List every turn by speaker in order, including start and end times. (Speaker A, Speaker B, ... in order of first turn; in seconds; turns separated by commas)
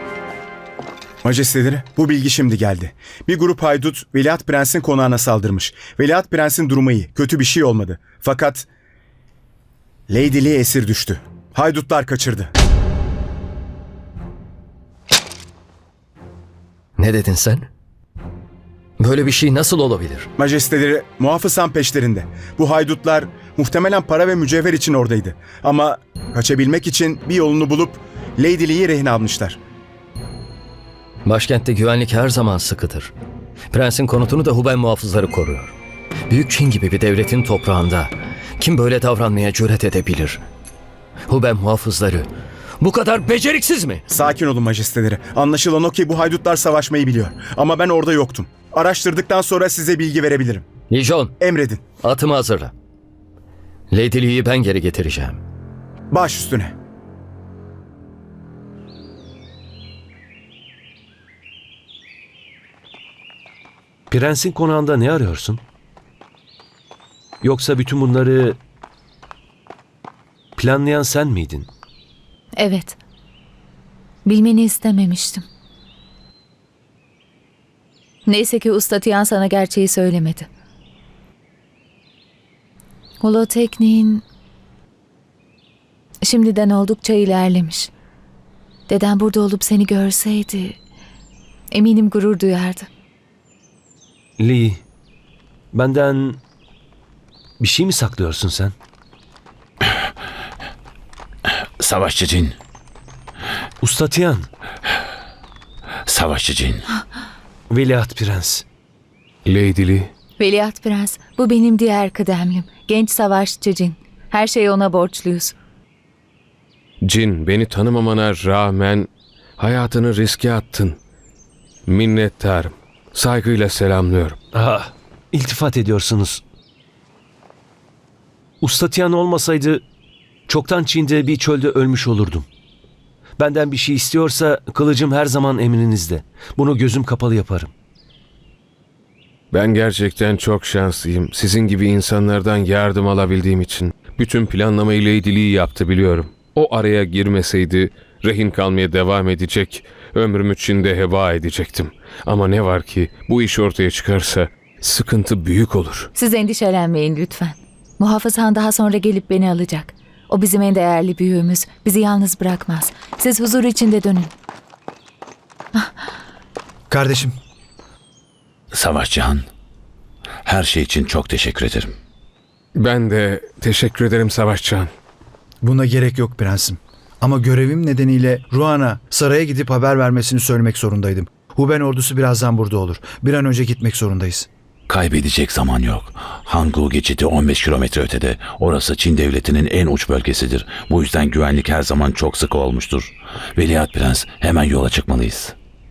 Speaker A: 1.2-8.7, Speaker A: 10.1-12.5, Speaker B: 17.0-17.7, Speaker B: 19.0-20.3, Speaker A: 20.4-29.6, Speaker B: 31.2-33.1, Speaker B: 33.7-35.7, Speaker B: 36.3-40.4, Speaker B: 41.2-42.3, Speaker B: 42.8-44.0, Speaker A: 44.1-50.7, Speaker B: 50.9-51.4, Speaker A: 51.4-51.8, Speaker B: 52.0-52.7, Speaker B: 53.9-55.4, Speaker A: 56.1-56.7, Speaker C: 64.1-65.6, Speaker C: 67.4-68.6, Speaker C: 70.6-71.7, Speaker D: 72.6-73.0, Speaker D: 74.2-75.4, Speaker D: 78.2-80.5, Speaker D: 83.2-84.2, Speaker D: 86.2-87.9, Speaker D: 88.9-90.8, Speaker D: 91.7-92.9, Speaker C: 94.4-94.8, Speaker C: 95.7-96.4, Speaker C: 97.6-98.7, Speaker E: 101.8-102.5, Speaker C: 103.8-104.5, Speaker E: 106.1-106.8, Speaker C: 107.7-108.6, Speaker F: 109.5-110.1, Speaker D: 110.4-115.5, Speaker F: 117.0-121.0, Speaker F: 121.8-124.4, Speaker C: 124.5-126.4, Speaker C: 128.6-129.8, Speaker C: 130.5-132.5, Speaker C: 133.4-137.7, Speaker F: 139.5-156.1, Speaker D: 156.1-164.3, Speaker G: 166.9-167.3, Speaker E: 168.7-169.4, Speaker E: 170.4-171.9, Speaker F: 172.8-174.9, Speaker G: 175.6-184.5, Speaker E: 184.9-195.5